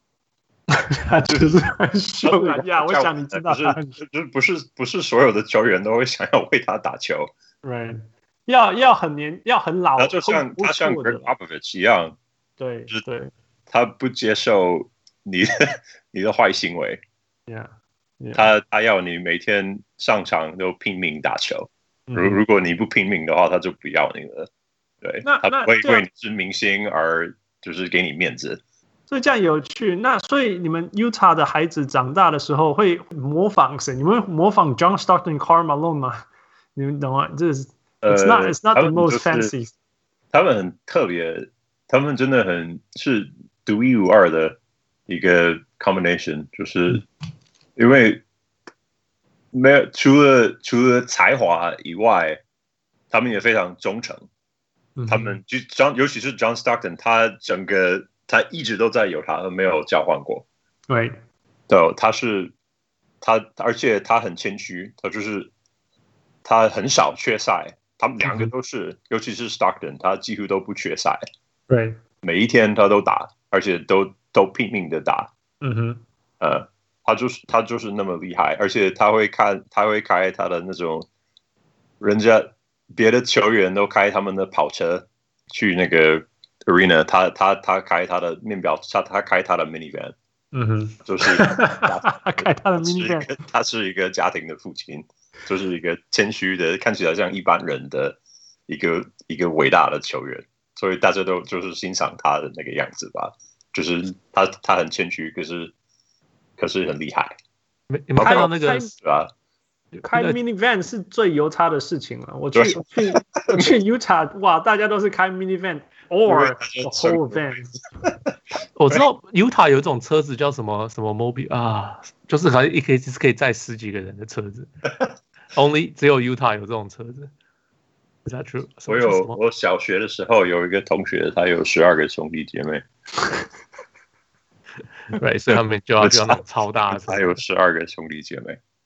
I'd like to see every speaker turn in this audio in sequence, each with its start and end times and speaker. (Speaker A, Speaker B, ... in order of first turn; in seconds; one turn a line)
Speaker A: 0.7-4.0
Speaker B: 2.2-7.3
Speaker A: 7.6-11.3
Speaker B: 10.0-12.2
Speaker A: 12.6-13.3
Speaker B: 13.7-17.0
Speaker A: 17.5-18.5
Speaker B: 18.3-24.5
Speaker A: 22.1-22.4
Speaker B: 25.0-28.6
Speaker A: 25.2-26.0
Speaker A: 29.1-39.7
Speaker B: 38.0-39.5
Speaker B: 40.3-44.6
Speaker B: 45.1-47.0
Speaker B: 47.8-48.2
Speaker B: 49.5-52.4
Speaker B: 53.1-54.2
Speaker A: 55.0-55.4
Speaker B: 55.1-60.4
Speaker A: 60.9-61.2
Speaker B: 61.7-62.5
Speaker B: 63.2-65.5
Speaker B: 66.4-71.2
Speaker A: 68.2-68.5
Speaker A: 71.7-72.0
Speaker B: 72.2-75.3
Speaker A: 75.6-76.0
Speaker B: 76.4-81.1
Speaker B: 82.0-90.1
Speaker A: 90.5-93.3
Speaker B: 91.0-98.2
Speaker B: 98.7-105.7
Speaker B: 106.6-107.3
Speaker C: 107.9-108.9
Speaker B: 108.2-109.3
Speaker A: 108.2-108.9
Speaker A: 110.0-117.7
Speaker C: 110.1-110.4
Speaker B: 112.5-113.7
Speaker B: 116.2-118.1
Speaker C: 118.8-124.7
Speaker C: 125.5-127.3
Speaker C: 128.2-129.4
Speaker B: 128.9-132.8
Speaker C: 135.1-137.4
Speaker B: 136.0-138.6